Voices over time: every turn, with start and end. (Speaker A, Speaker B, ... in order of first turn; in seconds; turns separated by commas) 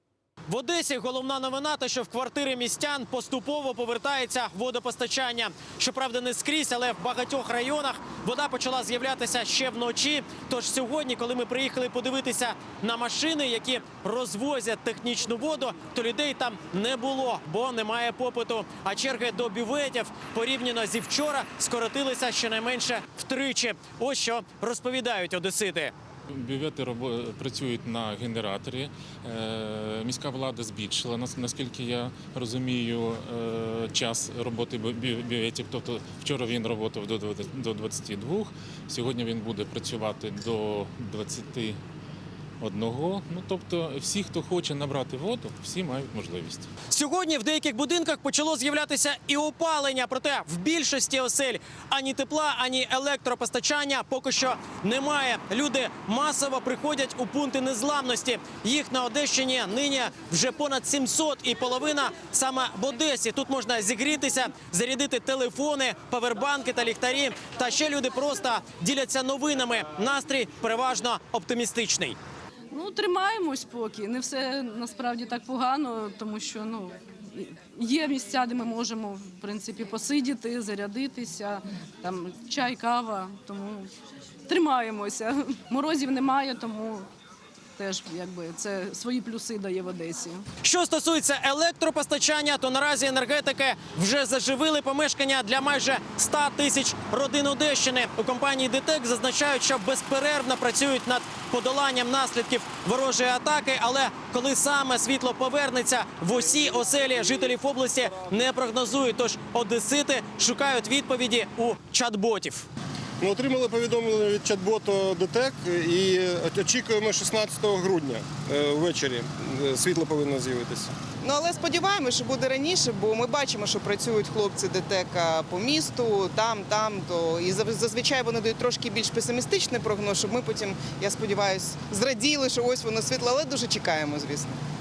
Speaker A: 0.5-25.9, Speaker B: 26.3-41.8, Speaker B: 42.6-46.7, Speaker A: 46.9-72.2, Speaker C: 72.7-83.9, Speaker C: 84.5-87.1, Speaker C: 87.8-90.5, Speaker A: 90.6-112.7, Speaker D: 113.2-120.9, Speaker E: 121.2-134.6